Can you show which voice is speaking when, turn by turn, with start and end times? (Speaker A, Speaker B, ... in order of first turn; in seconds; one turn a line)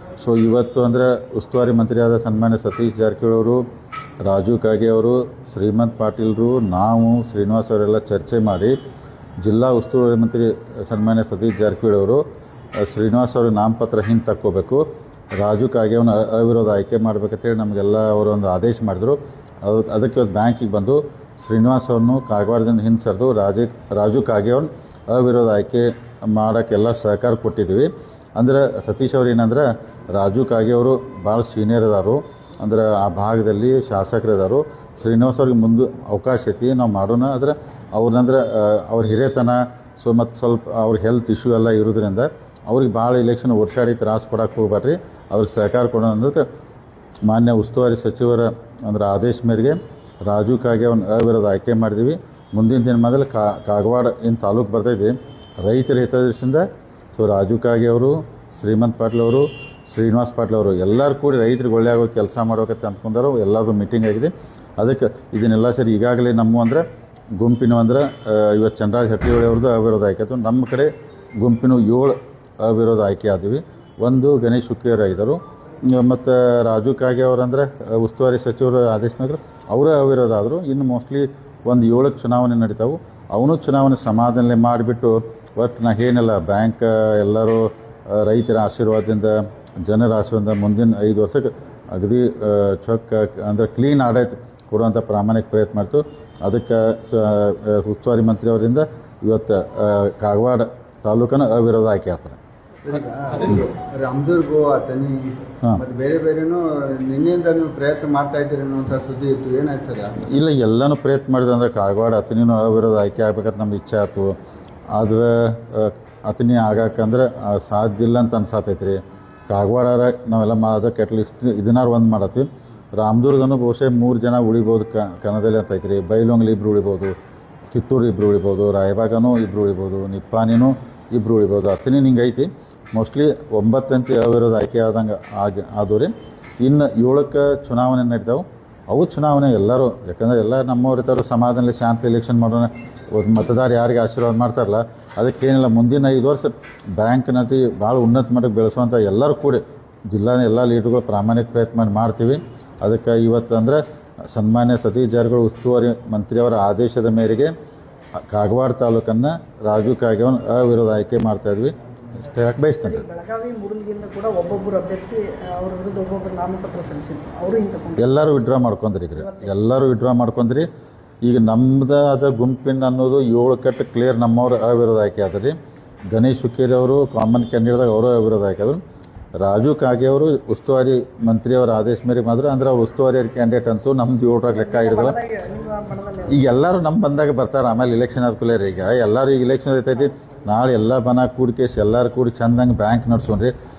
Speaker A: 0.2-3.6
Speaker A: 4.2-8.8
Speaker A: 9.4-12.2
Speaker A: 12.8-46.5
Speaker A: 47.2-66.8
Speaker A: 67.4-102.4
Speaker B: 102.8-110.2
Speaker A: 110.2-114.4
Speaker A: 114.9-127.1
Speaker A: 127.7-157.5
Speaker A: 158.2-163.0
Speaker C: 162.7-168.1
Speaker A: 167.9-170.7
Speaker C: 169.2-169.5
Speaker A: 171.2-175.6
Speaker A: 176.1-178.8
Speaker A: 179.4-185.2
Speaker C: 184.5-186.4
Speaker A: 186.2-193.5